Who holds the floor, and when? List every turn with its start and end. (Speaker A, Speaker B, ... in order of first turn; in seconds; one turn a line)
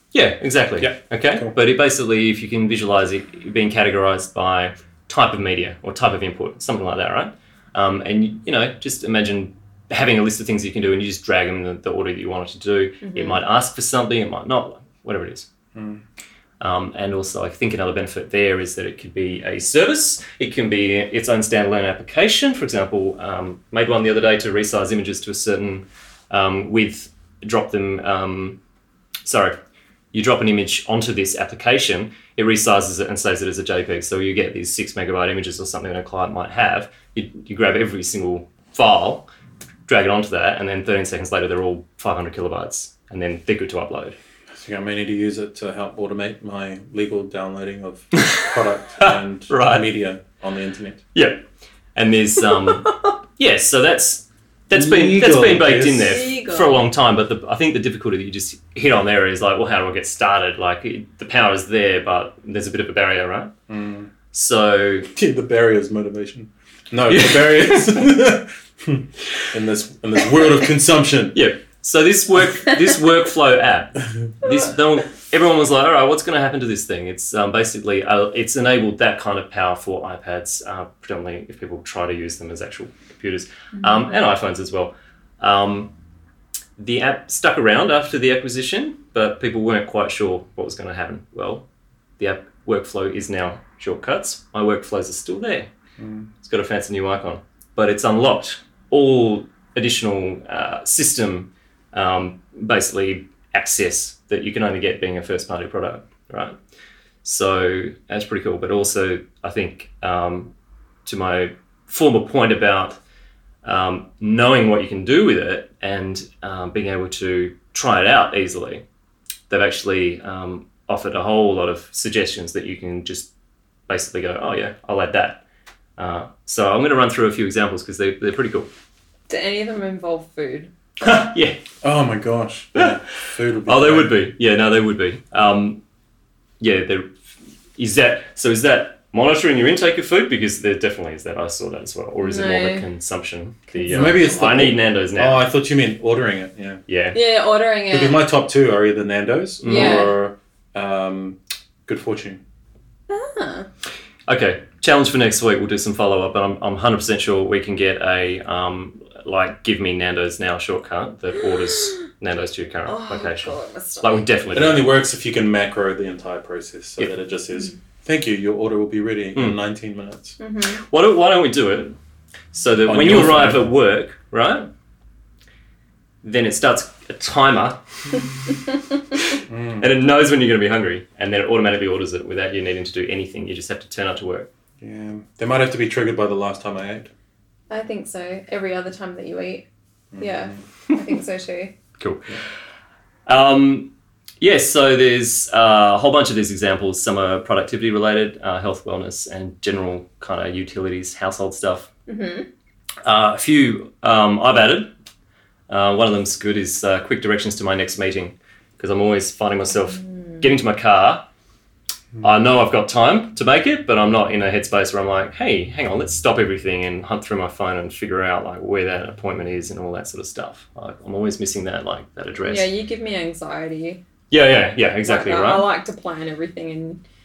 Speaker A: 0.1-15.5
Speaker B: 0.8-1.5
Speaker C: 13.0-13.4
Speaker B: 15.7-16.0
Speaker A: 16.6-28.6
Speaker A: 29.2-29.6
Speaker A: 30.1-39.3
Speaker A: 39.9-44.2
Speaker B: 44.5-51.0
Speaker A: 48.1-48.5
Speaker A: 49.0-49.9
Speaker A: 51.1-51.4
Speaker A: 51.9-63.5
Speaker B: 54.7-56.2
Speaker C: 56.0-56.9
Speaker B: 63.7-64.1
Speaker A: 64.3-65.1
Speaker B: 65.2-71.4
Speaker A: 67.1-68.1
Speaker A: 71.3-85.9
Speaker A: 86.8-91.6
Speaker A: 92.2-95.7
Speaker B: 96.0-96.3
Speaker A: 96.4-106.5
Speaker A: 107.2-110.5
Speaker A: 111.0-113.0
Speaker A: 113.6-118.8
Speaker A: 119.5-123.3
Speaker A: 123.9-125.4
Speaker A: 126.0-128.7
Speaker C: 129.3-130.7
Speaker A: 131.0-131.6
Speaker B: 131.8-134.2
Speaker A: 132.7-133.0
Speaker A: 133.7-135.8
Speaker A: 136.6-137.1
Speaker A: 137.8-145.4
Speaker C: 142.2-142.8
Speaker C: 143.7-144.2
Speaker B: 143.9-146.8
Speaker A: 146.9-147.2
Speaker C: 147.1-148.2
Speaker B: 147.9-152.4
Speaker A: 149.6-150.1
Speaker C: 149.7-150.1
Speaker C: 153.1-153.7
Speaker A: 154.3-164.9
Speaker C: 162.8-164.2
Speaker B: 164.5-170.4
Speaker C: 170.4-170.8
Speaker A: 170.7-171.9
Speaker A: 172.5-174.7
Speaker B: 172.8-173.7
Speaker A: 176.2-178.2
Speaker A: 179.2-184.5
Speaker B: 179.5-179.8
Speaker B: 184.8-187.1
Speaker C: 187.7-189.7
Speaker B: 190.1-190.6
Speaker C: 190.2-191.8
Speaker A: 192.0-192.4
Speaker A: 193.3-201.9
Speaker C: 202.1-202.5
Speaker A: 203.0-204.9
Speaker A: 205.7-211.2
Speaker C: 210.1-210.4
Speaker A: 212.2-222.7
Speaker C: 222.4-224.0
Speaker A: 224.3-225.7
Speaker C: 225.0-227.0